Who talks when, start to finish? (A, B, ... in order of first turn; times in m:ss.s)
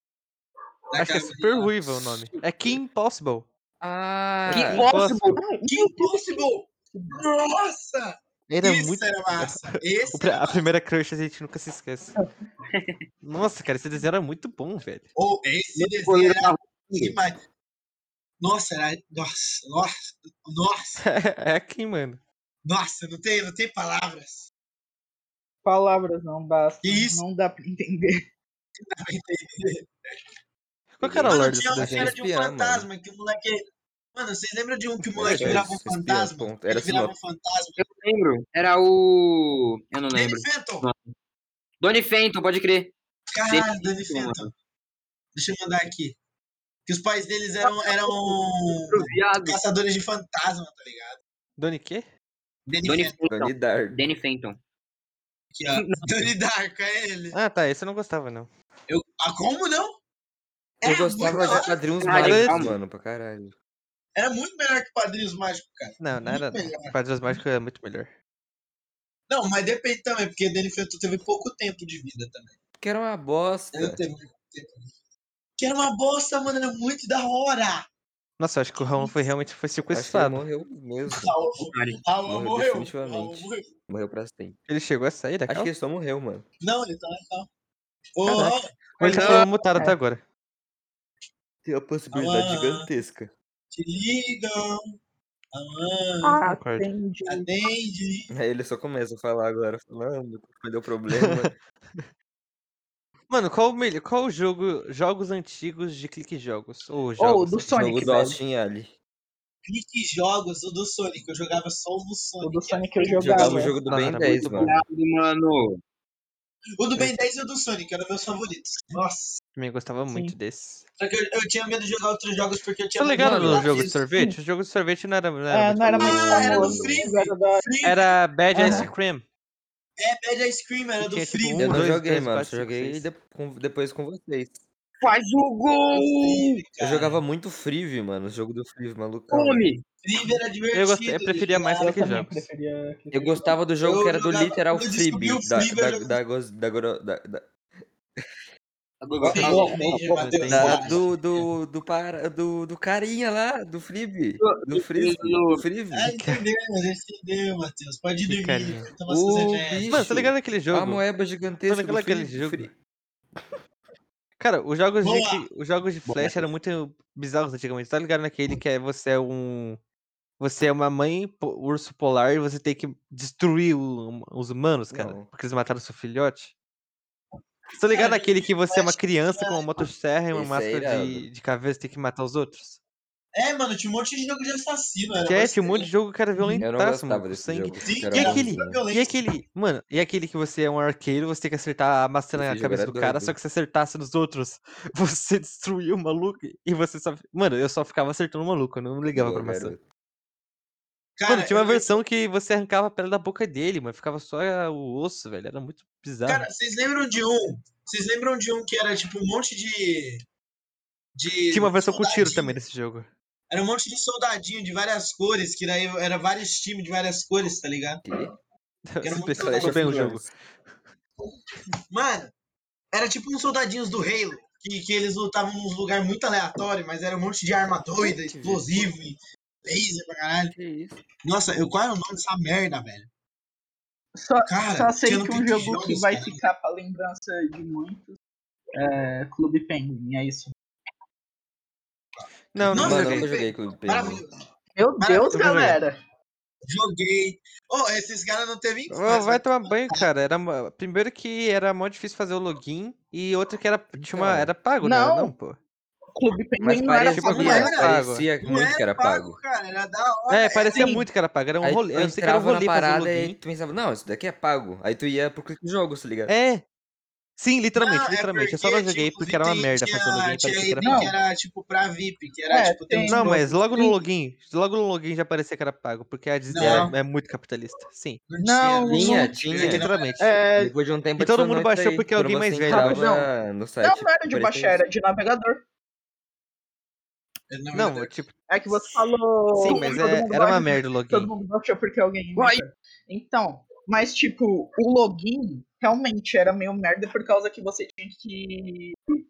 0:00.9-0:01.9 A
0:01.0-0:03.5 B
0:03.8-0:04.9 C
0:04.5-0:05.4 D
0:04.5-0:05.4 B
0:05.3-0:06.4 E
0:05.6-0:10.6 A
0:08.5-0:12.2 B
0:12.7-0:13.0 D
0:13.2-0:15.1 B
0:15.2-0:17.4 A
0:15.8-0:17.2 D
0:18.4-0:21.1 A
0:21.0-0:22.2 B
0:22.6-0:24.5 A
0:25.6-0:28.2 E
0:26.8-0:27.2 A
0:28.8-0:29.9 A
0:30.9-0:32.2 B
0:31.0-0:32.9 C
0:31.3-0:37.8 A
0:35.1-0:37.1 C
0:35.3-0:35.6 D
0:37.8-0:41.1 D
0:40.1-0:40.9 A
0:41.8-0:42.9 D
0:43.3-0:44.5 A
0:43.5-0:44.5 D
0:45.3-0:46.2 A
0:46.9-0:51.2 A
0:47.6-0:49.6 D
0:51.6-0:52.1 B
0:52.7-0:53.2 A
0:52.8-0:54.6 D
0:53.3-0:54.0 C
0:55.6-0:57.4 A
0:55.7-0:56.1 D
0:57.3-0:58.5 B
0:58.9-1:00.0 A
1:00.8-1:02.0 A
1:00.8-1:03.6 C
1:01.2-1:02.8 D
1:02.1-1:02.7 B
1:04.2-1:07.4 A
1:06.0-1:08.1 B
1:09.3-1:12.6 A
1:12.8-1:14.0 C
1:13.7-1:14.9 A
1:15.6-1:17.9 A
1:18.4-1:20.4 B
1:18.8-1:19.2 A
1:19.9-1:21.4 C
1:21.1-1:23.7 A
1:21.7-1:22.0 D
1:22.2-1:24.6 C
1:24.7-1:25.7 B
1:25.5-1:26.5 C
1:26.6-1:27.5 A
1:28.2-1:29.5 A
1:28.3-1:30.2 B
1:29.0-1:30.0 E
1:31.6-1:33.3 C
1:32.1-1:32.9 A
1:33.7-1:34.8 A
1:35.5-1:36.4 A
1:36.2-1:37.5 E
1:36.5-1:36.9 B
1:37.3-1:38.3 A
1:38.3-1:41.6 C
1:41.1-1:42.1 B
1:43.3-1:48.0 B
1:47.2-1:48.4 E
1:47.7-1:48.9 C
1:49.6-1:53.7 A
1:52.4-1:53.8 E
1:53.2-1:54.8 C
1:53.8-1:54.7 B
1:54.4-1:55.8 D
1:56.8-1:59.4 A
1:59.6-2:00.9 B
2:00.1-2:00.4 E
2:01.0-2:04.1 A
2:03.0-2:06.6 B
2:03.2-2:03.7 C
2:04.1-2:04.4 E
2:05.5-2:07.7 E
2:06.0-2:07.0 C
2:06.0-2:08.8 A
2:07.8-2:09.2 B
2:08.6-2:08.8 E
2:08.6-2:08.9 C
2:10.0-2:11.8 A
2:11.0-2:13.1 B
2:11.6-2:14.7 C
2:15.0-2:16.6 D
2:15.9-2:17.2 A
2:16.8-2:19.7 C
2:19.3-2:19.8 D
2:20.0-2:22.0 A
2:20.7-2:22.5 B
2:21.8-2:23.6 E
2:23.1-2:28.3 C
2:23.8-2:26.2 A
2:29.0-2:31.0 D
2:29.2-2:29.7 C
2:29.2-2:31.0 A
2:30.1-2:31.0 B
2:30.5-2:36.2 C
2:34.4-2:35.6 D
2:35.9-2:40.2 A
2:36.2-2:36.4 B
2:38.3-2:38.9 B
2:39.1-2:42.7 C
2:39.9-2:41.0 B
2:41.7-2:42.7 B
2:44.4-2:49.8 B
2:45.0-2:45.5 A
2:46.1-2:46.4 D
2:50.4-2:56.5 B
2:54.9-2:55.3 C
2:57.8-3:02.8 B
2:57.9-2:59.9 A
3:00.3-3:01.3 C
3:03.4-3:06.6 A
3:05.2-3:19.7 B
3:06.6-3:08.8 C
3:07.8-3:09.2 A
3:12.3-3:13.4 C
3:19.2-3:19.8 C
3:21.2-3:22.0 A
3:21.3-3:26.5 B
3:26.3-3:30.2 A
3:31.2-3:32.6 A
3:31.5-3:33.1 B
3:33.5-3:38.0 A
3:38.0-3:38.3 C
3:38.9-3:40.3 B
3:39.0-3:40.1 A
3:39.2-3:40.3 C
3:41.9-3:42.3 A
3:42.9-3:50.6 A
3:48.0-3:48.7 C
3:50.5-3:51.0 C
3:51.2-3:53.1 A
3:54.2-3:58.2 E
3:54.5-3:56.4 A
3:58.8-4:00.5 E
4:02.5-4:03.3 B
4:02.6-4:04.4 A
4:02.6-4:04.2 C
4:04.8-4:06.0 E
4:05.0-4:05.5 A
4:05.3-4:05.8 B
4:06.7-4:10.1 A
4:08.9-4:15.6 B
4:14.0-4:14.5 C
4:14.8-4:15.3 E
4:16.2-4:17.8 E
4:16.6-4:19.4 C
4:17.1-4:18.3 B
4:17.2-4:21.0 A
4:20.3-4:23.4 B
4:20.7-4:21.1 E
4:21.6-4:26.3 C
4:26.3-4:26.6 B
4:27.4-4:31.1 B
4:27.8-4:33.4 A
4:30.8-4:31.2 E
4:32.5-4:34.0 E
4:33.1-4:38.2 B
4:36.5-4:37.0 A
4:36.6-4:36.9 C
4:38.3-4:40.2 A
4:38.4-4:39.4 E
4:38.9-4:39.8 C
4:39.4-4:40.3 B
4:40.2-4:40.8 E
4:40.6-4:44.8 C
4:41.2-4:43.2 B
4:42.7-4:43.3 E
4:43.8-4:45.6 E
4:47.5-4:48.2 A
4:47.7-4:48.3 B
4:48.5-4:59.0 E
4:49.6-4:51.3 B
4:52.4-4:52.6 D